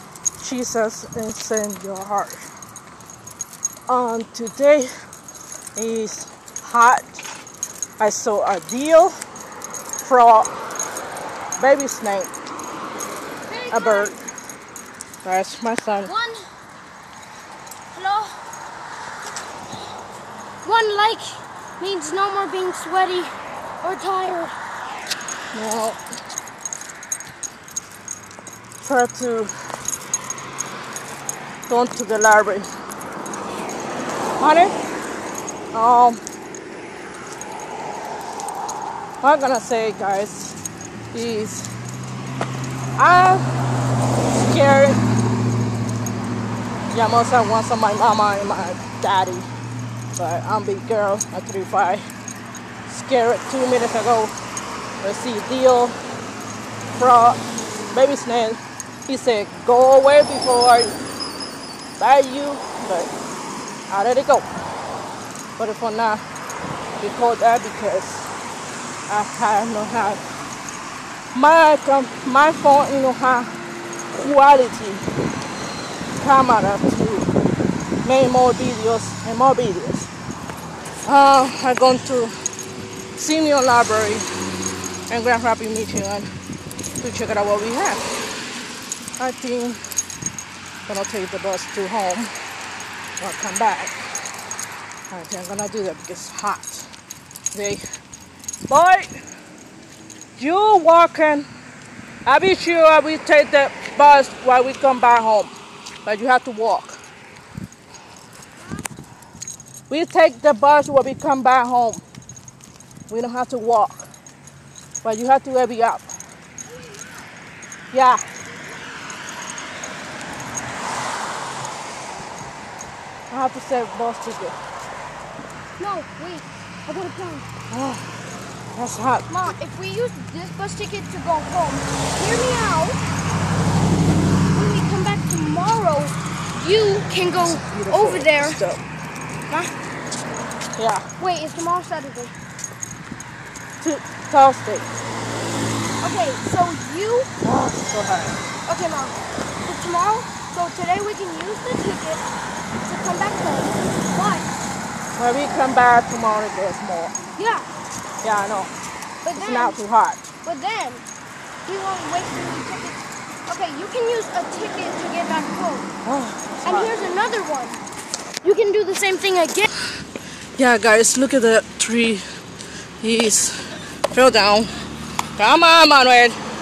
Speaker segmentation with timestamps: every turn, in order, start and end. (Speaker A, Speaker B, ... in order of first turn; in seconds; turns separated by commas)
Speaker A: 0.4-2.5, Speaker A: 3.9-4.9, Speaker A: 5.8-7.2, Speaker A: 8.0-9.1, Speaker A: 10.0-10.5, Speaker A: 11.6-12.3, Speaker B: 13.5-14.1, Speaker A: 13.7-14.2, Speaker A: 15.2-16.1, Speaker B: 16.0-16.5, Speaker B: 17.9-18.4, Speaker B: 20.6-24.5, Speaker A: 25.5-26.0, Speaker A: 28.8-29.5, Speaker A: 31.7-32.7, Speaker A: 34.4-34.8, Speaker A: 35.7-36.2, Speaker A: 39.2-40.6, Speaker A: 41.1-41.7, Speaker A: 43.0-43.5, Speaker A: 44.3-45.0, Speaker A: 46.9-49.5, Speaker A: 50.1-52.0, Speaker A: 52.9-54.3, Speaker A: 55.0-56.0, Speaker A: 56.9-60.9, Speaker A: 62.0-63.1, Speaker A: 63.9-64.5, Speaker A: 65.6-66.2, Speaker A: 67.0-68.3, Speaker A: 69.1-70.2, Speaker A: 71.3-73.5, Speaker A: 74.1-75.0, Speaker A: 76.2-77.3, Speaker A: 78.0-80.1, Speaker A: 81.0-82.3, Speaker A: 83.2-84.3, Speaker A: 85.1-86.3, Speaker A: 87.0-88.0, Speaker A: 89.2-89.8, Speaker A: 90.8-92.3, Speaker A: 93.2-93.9, Speaker A: 95.1-96.9, Speaker A: 97.5-97.8, Speaker A: 98.7-99.1, Speaker A: 100.4-101.5, Speaker A: 102.2-105.5, Speaker A: 106.0-107.0, Speaker A: 109.9-112.0, Speaker A: 113.1-114.1, Speaker A: 115.0-116.1, Speaker B: 116.6-117.3, Speaker A: 117.9-118.2, Speaker A: 123.3-124.5, Speaker B: 125.8-127.5, Speaker A: 127.7-128.1, Speaker A: 128.8-129.3, Speaker B: 129.3-133.0, Speaker B: 134.5-138.6, Speaker A: 137.3-138.8, Speaker A: 140.8-141.1, Speaker B: 141.2-142.3, Speaker A: 143.8-144.9, Speaker B: 146.0-147.3, Speaker A: 147.4-148.4, Speaker B: 148.7-152.2, Speaker B: 152.8-154.5, Speaker A: 155.2-157.2, Speaker B: 157.4-157.7, Speaker A: 158.2-158.7, Speaker B: 159.2-159.8, Speaker A: 159.3-160.3, Speaker B: 160.4-161.0, Speaker B: 161.7-165.9, Speaker A: 166.0-166.9, Speaker B: 166.6-167.8, Speaker B: 168.4-169.7, Speaker A: 170.6-172.2, Speaker A: 173.0-174.7, Speaker A: 175.4-176.4